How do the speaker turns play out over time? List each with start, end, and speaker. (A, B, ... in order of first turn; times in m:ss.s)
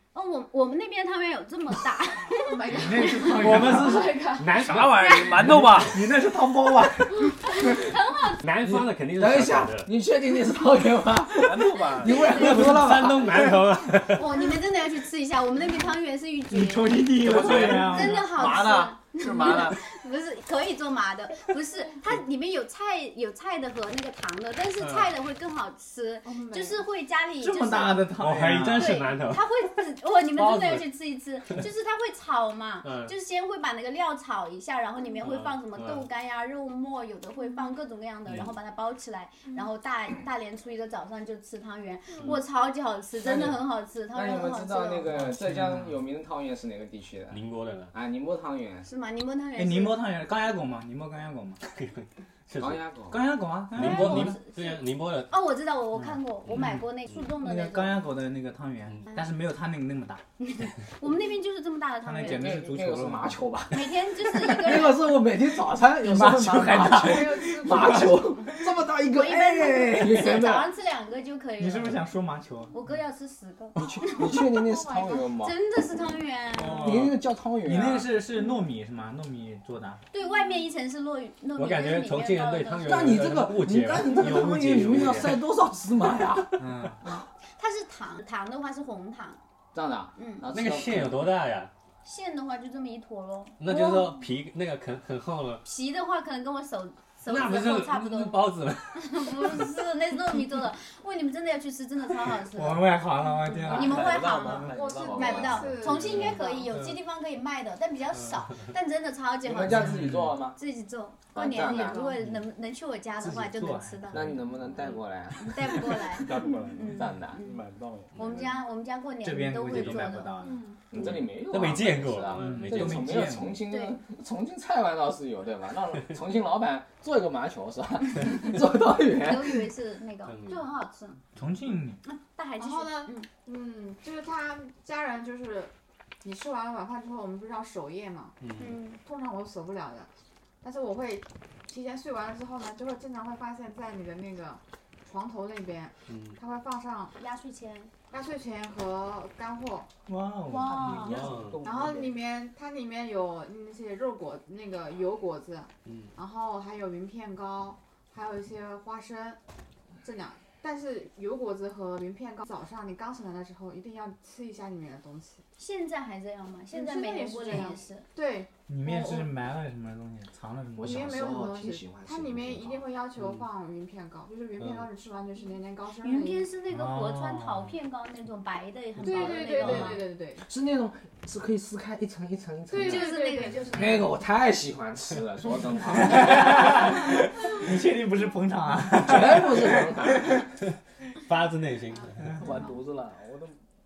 0:00.1-0:03.2 A
0:02.3-0:04.6 B
0:02.7-0:04.1 C
0:04.2-0:05.9 D
0:04.5-0:06.0 E
0:05.4-0:07.7 C
0:07.6-0:08.4 A
0:08.2-0:09.9 D
0:08.6-0:13.6 F
0:11.3-0:12.4 E
0:12.2-0:14.3 D
0:12.3-0:12.5 A
0:12.3-0:13.3 C
0:14.1-0:28.1 A
0:16.5-0:18.3 C
0:17.2-0:19.8 E
0:17.3-0:19.8 F
0:24.8-0:25.2 D
0:26.2-0:26.9 B
0:27.4-0:29.1 C
0:28.2-0:29.5 D
0:28.7-0:45.1 A
0:30.3-0:30.9 D
0:32.8-0:33.1 D
0:35.2-0:36.1 D
0:38.3-0:38.5 D
0:43.2-0:43.6 F
0:44.1-0:48.9 F
0:45.1-0:46.0 C
0:47.3-0:48.0 D
0:48.8-0:50.0 A
0:49.6-0:51.6 C
0:51.6-0:52.8 D
0:52.6-0:53.2 F
0:53.1-0:54.4 C
0:53.7-0:55.3 D
0:53.8-0:58.0 A
0:56.0-0:56.8 C
0:56.5-0:57.2 D
0:57.4-1:00.2 C
1:00.4-1:02.7 A
1:02.0-1:03.4 C
1:02.2-1:10.7 F
1:03.7-1:05.1 A
1:06.0-1:08.8 C
1:07.0-1:08.2 B
1:09.1-1:12.0 A
1:11.6-1:12.8 C
1:12.7-1:14.4 A
1:13.8-1:15.6 F
1:14.3-1:15.3 B
1:15.1-1:17.0 A
1:16.6-1:20.0 C
1:16.6-1:18.2 F
1:20.1-1:23.2 A
1:21.6-1:25.4 D
1:22.8-1:27.2 F
1:26.6-1:27.0 C
1:27.6-1:29.4 A
1:29.7-1:31.3 F
1:30.2-1:30.5 A
1:30.5-1:31.7 D
1:32.0-1:34.1 A
1:33.6-1:35.6 D
1:35.6-1:42.9 A
1:37.3-1:39.7 D
1:38.4-1:38.7 E
1:42.5-1:44.6 C
1:43.6-1:45.5 E
1:43.7-1:54.3 A
1:44.7-1:46.7 B
1:45.0-1:46.0 F
1:45.8-1:47.0 D
1:48.2-1:48.5 D
1:49.4-1:50.6 F
1:49.7-1:50.1 D
1:49.8-1:50.3 C
1:51.3-1:52.1 F
1:51.6-1:52.2 B
1:53.2-1:54.4 C
1:54.1-1:58.5 F
1:54.8-1:57.6 A
1:58.2-2:00.4 A
1:59.2-2:00.6 C
2:00.4-2:00.9 B
2:00.9-2:09.7 F
2:00.9-2:03.4 D
2:02.3-2:03.6 C
2:03.7-2:04.0 A
2:09.2-2:11.2 A
2:10.2-2:10.6 D
2:11.4-2:12.0 C
2:12.0-2:13.3 A
2:12.6-2:15.7 B
2:16.2-2:18.4 B
2:18.4-2:18.7 D
2:18.6-2:19.0 A
2:19.0-2:20.1 B
2:20.6-2:27.1 B
2:26.1-2:26.4 D
2:27.2-2:27.9 A
2:28.1-2:29.9 B
2:30.1-2:31.4 C
2:30.5-2:31.3 A
2:31.0-2:32.1 F
2:31.1-2:31.6 D
2:31.6-2:39.4 B
2:35.8-2:36.1 D
2:40.0-2:45.4 B
2:45.6-2:48.1 A
2:46.7-2:49.3 B
2:48.7-2:51.2 C
2:50.8-2:52.9 F
2:50.8-2:56.5 B
2:54.6-2:54.9 D
2:56.0-3:00.0 A
2:56.7-2:57.7 C
2:59.0-3:00.4 B
2:59.1-3:03.1 F
3:02.7-3:04.1 B
3:02.8-3:04.1 A
3:03.6-3:07.0 F
3:05.9-3:10.4 C
3:08.9-3:10.3 F
3:11.2-3:12.4 D
3:12.3-3:13.6 E
3:12.4-3:12.7 B
3:12.4-3:12.8 A